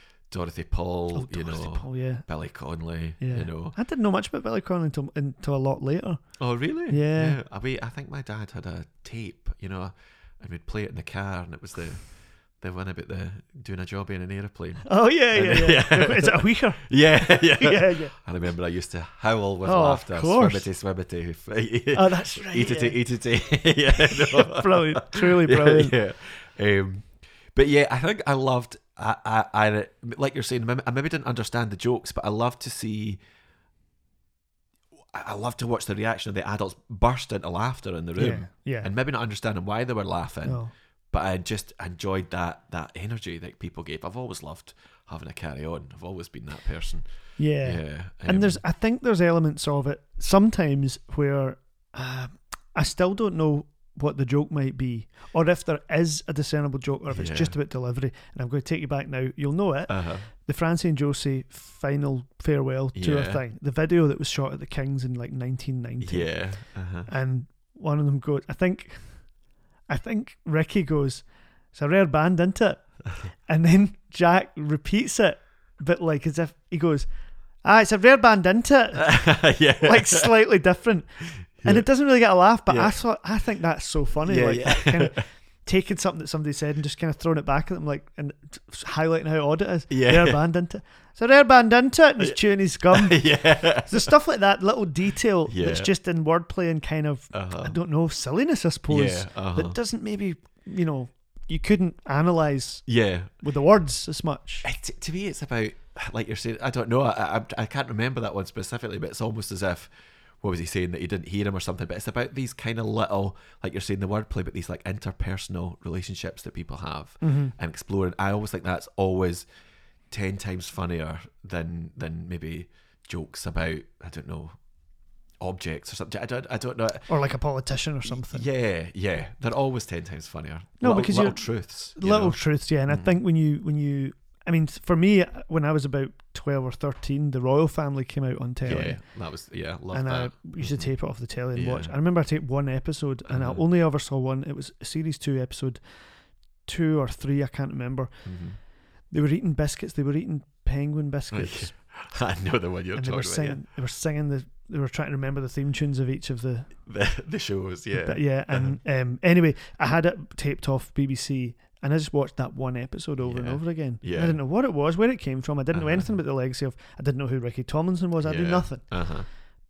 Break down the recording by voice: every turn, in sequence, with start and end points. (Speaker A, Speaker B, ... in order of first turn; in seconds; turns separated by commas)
Speaker A: 0.3-3.8, Speaker B: 1.1-2.3, Speaker B: 3.2-6.2, Speaker A: 6.4-33.2, Speaker B: 6.9-7.4, Speaker B: 14.8-18.1, Speaker B: 19.6-20.6, Speaker B: 21.9-23.0, Speaker B: 24.0-25.9, Speaker A: 35.1-48.6, Speaker B: 38.1-38.9, Speaker B: 40.4-40.7, Speaker B: 47.4-66.3, Speaker A: 57.1-57.5, Speaker A: 59.9-60.3, Speaker A: 62.9-63.4, Speaker A: 66.0-67.1, Speaker B: 67.0-69.3, Speaker B: 69.9-77.1, Speaker B: 77.6-102.8, Speaker A: 78.9-80.3, Speaker A: 81.4-81.9, Speaker A: 82.7-83.0, Speaker A: 84.2-85.2, Speaker A: 89.9-90.4, Speaker A: 92.2-94.1, Speaker A: 95.5-95.9, Speaker A: 97.3-97.8, Speaker A: 98.9-99.8, Speaker A: 102.9-103.3, Speaker B: 103.4-104.7, Speaker A: 104.6-109.9, Speaker A: 110.4-119.5, Speaker B: 117.2-117.5, Speaker A: 120.1-124.5, Speaker A: 125.4-127.1, Speaker B: 127.1-128.4, Speaker A: 128.0-133.2, Speaker B: 130.8-139.0, Speaker A: 138.6-140.9, Speaker B: 139.9-145.8, Speaker A: 141.5-141.9, Speaker A: 143.3-143.6, Speaker B: 146.6-148.1, Speaker A: 148.2-148.6, Speaker B: 149.1-151.8, Speaker A: 151.3-153.6, Speaker B: 152.9-156.7, Speaker A: 156.8-158.8, Speaker B: 157.9-168.9, Speaker A: 163.2-164.4, Speaker A: 165.7-166.1, Speaker A: 168.2-169.3